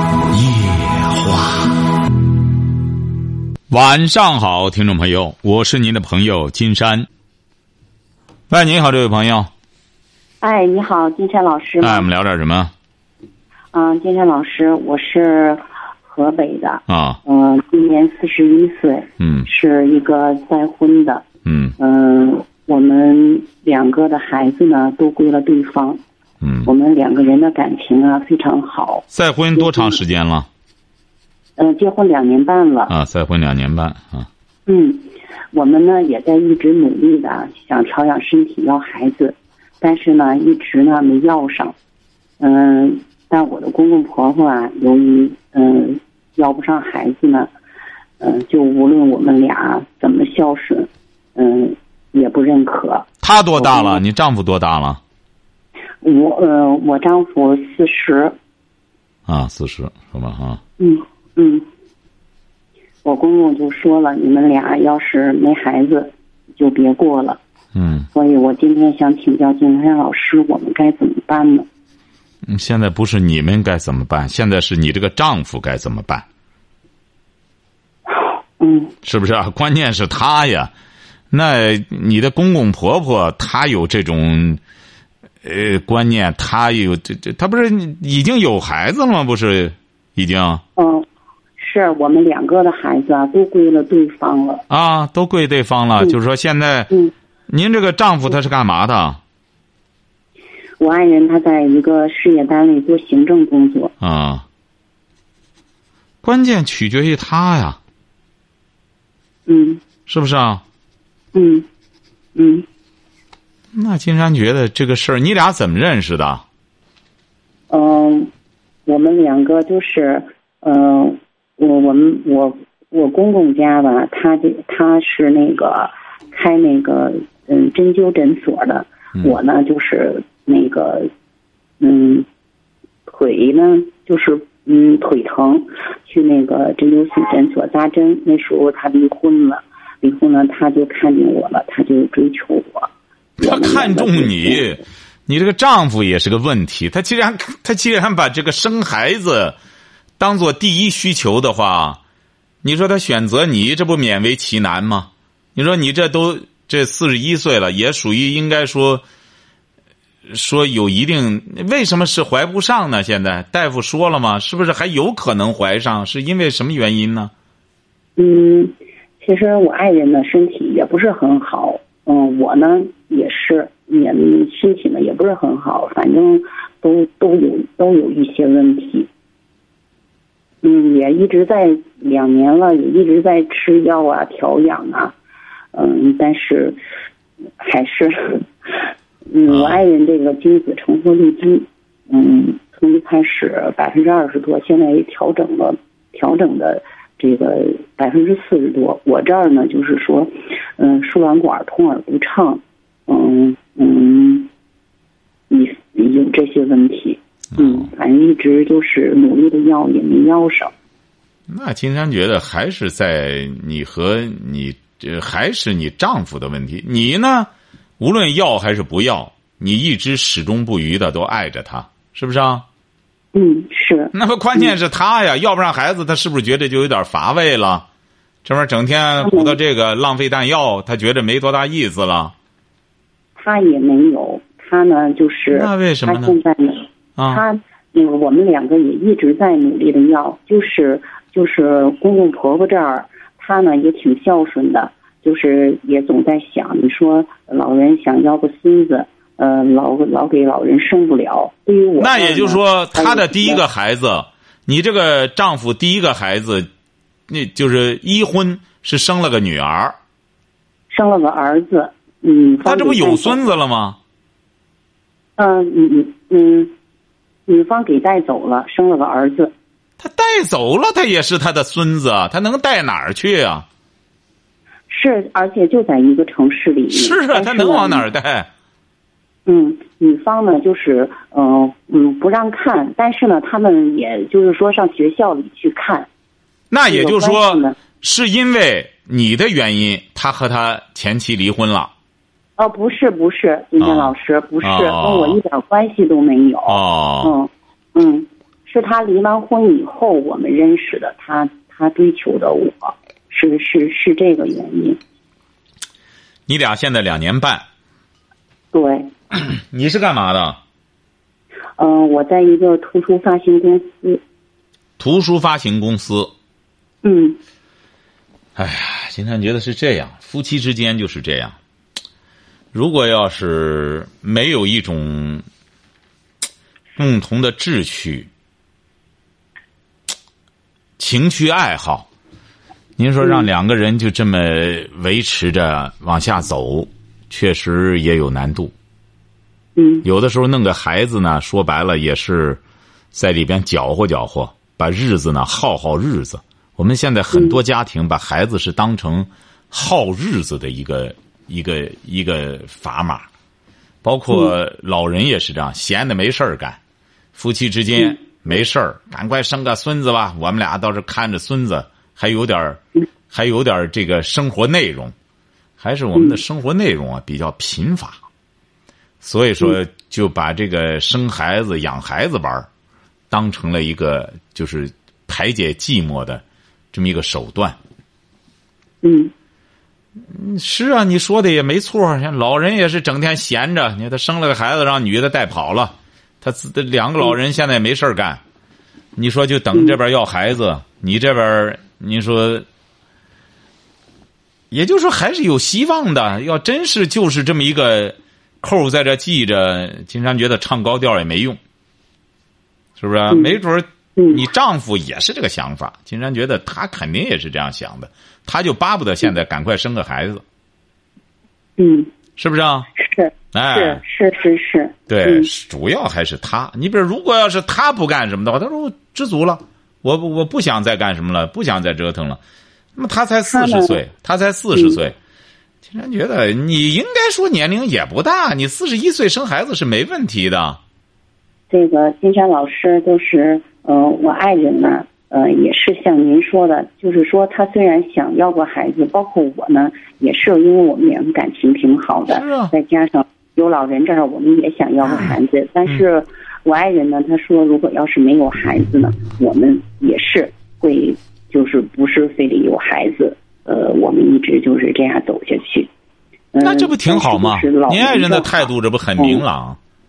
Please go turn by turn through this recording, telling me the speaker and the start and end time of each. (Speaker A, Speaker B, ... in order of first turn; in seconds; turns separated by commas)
Speaker A: 0.3-1.8, Speaker A: 3.7-7.1, Speaker A: 8.5-9.5, Speaker B: 10.4-12.1, Speaker A: 11.8-12.7, Speaker B: 13.7-21.2, Speaker A: 16.9-17.2, Speaker A: 19.2-19.5, Speaker A: 21.4-21.8, Speaker B: 21.8-26.0, Speaker A: 26.4-26.7, Speaker B: 26.6-30.0, Speaker A: 29.1-30.5, Speaker B: 31.6-32.9, Speaker A: 32.9-34.3, Speaker B: 34.7-41.7, Speaker B: 42.4-47.5, Speaker B: 48.2-54.0, Speaker A: 53.2-55.0, Speaker B: 56.0-58.4, Speaker A: 59.3-60.6, Speaker B: 60.8-61.7, Speaker B: 63.0-67.4, Speaker A: 67.8-68.1, Speaker B: 68.1-71.7, Speaker A: 72.5-76.2, Speaker B: 78.2-79.0, Speaker A: 79.0-80.7, Speaker A: 81.3-84.6, Speaker A: 85.4-90.6, Speaker B: 90.8-91.0, Speaker B: 91.6-94.6, Speaker A: 94.7-96.9, Speaker A: 97.5-99.2, Speaker B: 100.8-103.9, Speaker A: 104.0-104.5, Speaker A: 106.2-107.8, Speaker B: 109.5-109.8, Speaker A: 110.1-110.6, Speaker B: 111.3-111.7, Speaker B: 112.3-112.7, Speaker A: 113.7-116.5, Speaker B: 117.7-118.3, Speaker B: 118.9-131.1, Speaker B: 131.8-132.3, Speaker B: 133.1-144.7, Speaker A: 143.4-149.6, Speaker A: 150.2-152.0, Speaker A: 152.6-159.0, Speaker A: 160.3-167.3, Speaker B: 168.2-179.1, Speaker B: 180.6-185.2, Speaker B: 185.7-186.8, Speaker B: 187.6-204.5, Speaker A: 189.5-189.8, Speaker B: 205.5-210.7, Speaker A: 207.6-207.8, Speaker A: 211.5-222.7, Speaker B: 223.3-224.7, Speaker A: 224.1-227.9, Speaker A: 228.4-232.3, Speaker B: 229.2-229.6, Speaker B: 233.4-253.6, Speaker A: 235.5-236.3, Speaker A: 237.2-237.4, Speaker A: 252.0-256.7, Speaker A: 257.3-260.0, Speaker B: 260.9-263.4, Speaker A: 262.6-264.0, Speaker B: 265.4-266.7, Speaker B: 267.5-269.5, Speaker A: 270.0-273.7, Speaker B: 274.9-278.1, Speaker A: 276.9-278.5, Speaker B: 279.5-286.1, Speaker A: 286.7-291.9, Speaker B: 286.9-287.8, Speaker B: 292.6-305.0, Speaker A: 293.8-295.4, Speaker A: 296.7-297.3, Speaker A: 306.5-307.6, Speaker B: 308.7-309.1, Speaker A: 309.3-310.6, Speaker B: 311.8-314.2, Speaker A: 315.0-316.3, Speaker B: 317.0-317.4, Speaker A: 318.6-321.6, Speaker A: 322.7-325.4, Speaker A: 327.0-328.3, Speaker A: 331.0-332.1, Speaker A: 333.0-338.7, Speaker B: 333.2-333.5, Speaker B: 339.8-340.1, Speaker A: 340.0-342.6, Speaker A: 343.1-353.3, Speaker B: 347.3-347.6, Speaker A: 354.0-356.8, Speaker A: 357.3-365.1, Speaker B: 357.9-358.2, Speaker A: 365.8-368.2, Speaker A: 369.2-372.7, Speaker A: 373.3-377.8, Speaker B: 379.0-379.3, Speaker A: 380.3-388.4, Speaker A: 389.2-392.6, Speaker A: 394.7-401.6, Speaker A: 403.0-410.4, Speaker B: 403.3-403.6, Speaker B: 404.2-404.5, Speaker B: 411.8-412.1, Speaker A: 412.4-412.9, Speaker B: 413.0-415.5, Speaker A: 413.5-414.0, Speaker A: 415.1-422.4, Speaker A: 423.0-425.2, Speaker B: 423.5-424.0, Speaker A: 425.9-430.8, Speaker B: 431.7-455.9, Speaker A: 442.3-442.7, Speaker B: 456.5-459.4, Speaker A: 456.6-459.8